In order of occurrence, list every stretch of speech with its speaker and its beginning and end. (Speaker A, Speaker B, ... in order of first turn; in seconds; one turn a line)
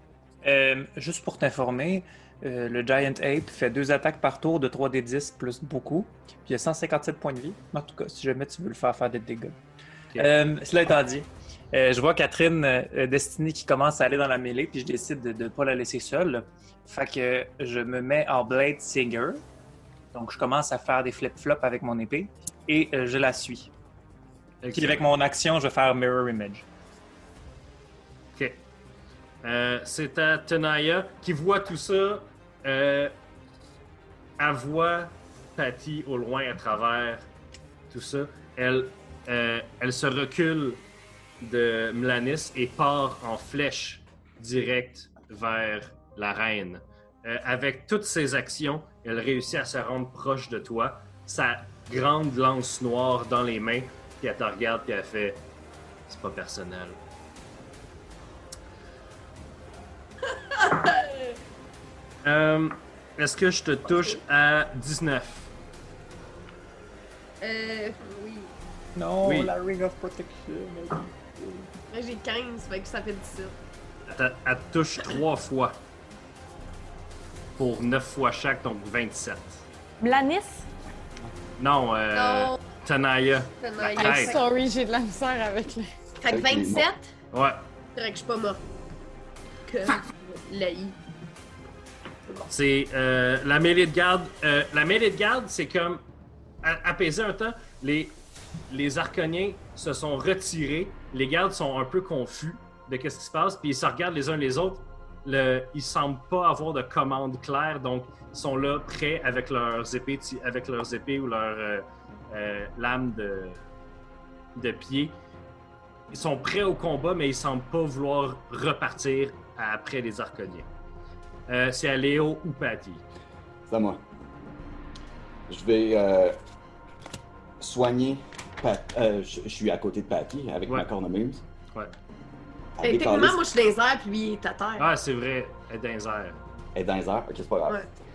Speaker A: 0.4-9.6
Speaker A: 10.2-19.4
Speaker A: 20.1-23.7
Speaker B: 24.6-25.1
Speaker A: 24.7-26.7
Speaker B: 28.4-28.6
Speaker B: 29.4-33.1
Speaker B: 34.4-37.3
Speaker B: 37.9-40.8
Speaker B: 41.4-55.4
Speaker B: 56.1-57.0
Speaker C: 60.5-61.3
Speaker B: 62.2-65.5
Speaker C: 63.9-64.2
Speaker C: 67.4-68.5
Speaker A: 69.0-71.7
Speaker B: 69.2-69.5
Speaker C: 71.9-73.6
Speaker B: 74.1-75.8
Speaker B: 77.6-79.7
Speaker D: 80.0-80.7
Speaker B: 81.6-84.4
Speaker C: 82.1-82.6
Speaker C: 83.6-84.5
Speaker D: 84.0-85.9
Speaker C: 86.2-87.1
Speaker E: 86.3-86.9
Speaker B: 87.3-87.7
Speaker C: 88.0-88.6
Speaker C: 89.7-91.0
Speaker B: 92.5-96.0
Speaker B: 96.6-98.2
Speaker B: 98.7-113.6
Speaker B: 114.5-115.2
Speaker B: 116.1-120.7
Speaker B: 121.5-123.0
Speaker E: 123.7-124.0
Speaker E: 125.5-126.4
Speaker E: 127.6-131.4
Speaker E: 132.8-133.4
Speaker C: 132.8-134.9
Speaker B: 134.8-136.4
Speaker E: 136.8-137.8